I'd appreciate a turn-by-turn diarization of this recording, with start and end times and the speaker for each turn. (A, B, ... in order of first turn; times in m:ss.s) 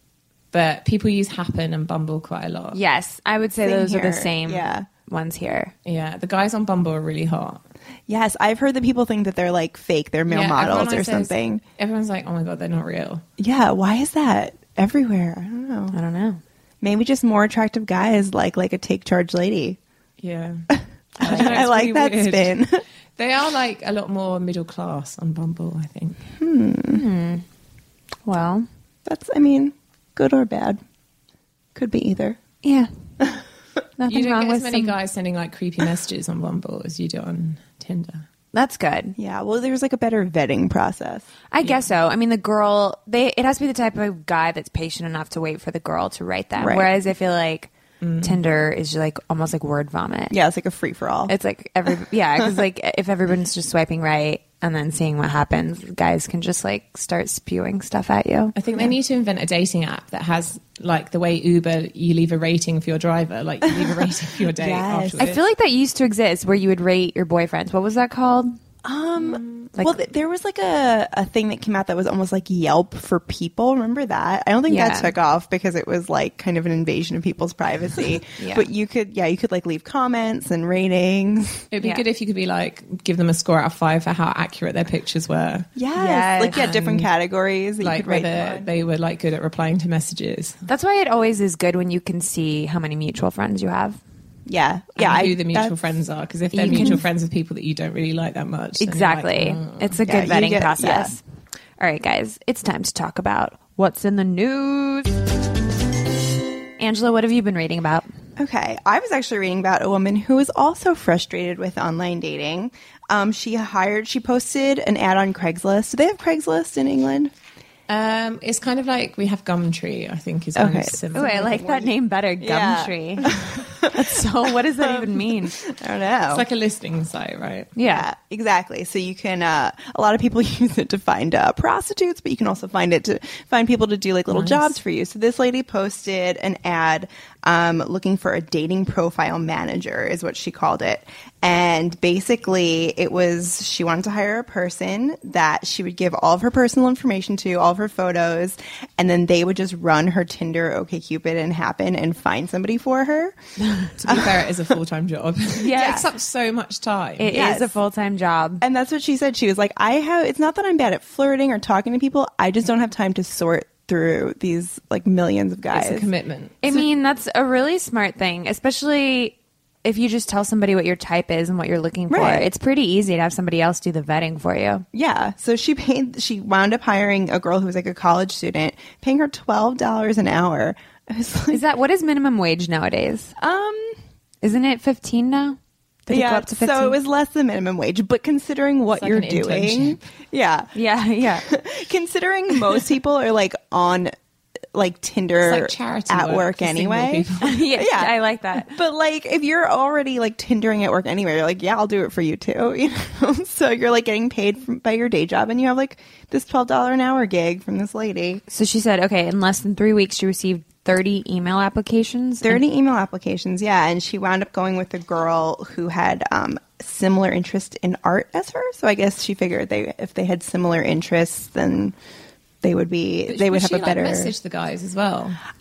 0:00.5-0:02.8 A
0:02.7-0:05.7 B
0:03.6-0:04.9 C
0:05.8-0:07.6 A
0:08.1-0:11.6 C
0:10.3-0:13.2 A
0:13.4-0:15.9 C
0:15.9-0:16.4 B
0:16.8-0:19.8 C
0:20.2-0:20.7 A
0:20.7-0:22.8 C
0:21.2-0:22.6 A
0:21.2-0:21.7 B
0:23.2-0:26.2 A
0:26.4-0:27.0 C
0:26.9-0:27.4 B
0:28.3-0:28.7 B
0:29.1-0:30.8 C
0:31.8-0:32.4 C
0:32.6-0:32.9 B
0:34.0-0:35.0 B
0:34.1-0:38.3 A
0:38.5-0:39.2 B
0:39.2-0:41.3 C
0:41.5-0:47.7 B
0:46.6-0:46.9 C
0:48.0-0:48.4 A
0:48.2-0:50.3 B
0:50.3-0:51.3 C
0:51.3-0:58.5 B
0:58.6-1:05.4 A
1:03.7-1:05.4 C
1:05.2-1:08.6 B
1:08.8-1:21.7 C
1:09.2-1:09.7 A
1:14.7-1:15.1 B
1:18.4-1:18.7 B
1:21.7-1:25.7 A
1:25.8-1:28.7 C
1:26.0-1:26.6 B
1:26.5-1:27.1 A
1:27.8-1:30.6 A
1:30.7-1:34.0 B
1:34.5-1:35.7 C
1:35.0-1:40.0 A
1:36.5-1:37.0 B
1:36.7-1:37.0 C
1:38.8-1:41.2 B
1:40.0-1:41.1 C
1:41.8-1:45.2 B
1:46.8-1:48.1 B
1:48.4-1:57.3 C
1:57.9-2:01.6 A
2:00.6-2:06.4 C
2:01.1-2:03.3 B
2:03.9-2:05.6 B
2:06.3-2:07.7 A
2:07.8-2:08.1 B
2:07.9-2:33.4 C
2:14.3-2:14.8 A
2:34.0-2:37.3 A
2:34.0-2:34.7 C
2:35.6-2:36.1 B
2:37.2-2:38.6 B
2:37.3-2:37.8 C
2:38.6-2:46.1 C
2:45.7-2:46.6 A
2:46.6-2:54.8 B
2:52.1-2:52.5 C
2:54.9-3:01.6 C
3:01.5-3:03.4 B
3:03.4-3:04.0 C
3:04.4-3:07.0 B
3:06.1-3:10.7 C
3:09.0-3:10.0 A
3:10.7-3:11.5 B
3:11.3-3:14.1 C
3:14.7-3:17.3 C
3:15.4-3:17.6 A
3:17.4-3:18.7 B
3:17.8-3:28.4 C
3:28.5-3:32.6 B
3:32.4-3:42.0 C
3:42.6-3:44.3 C
3:43.3-3:45.4 A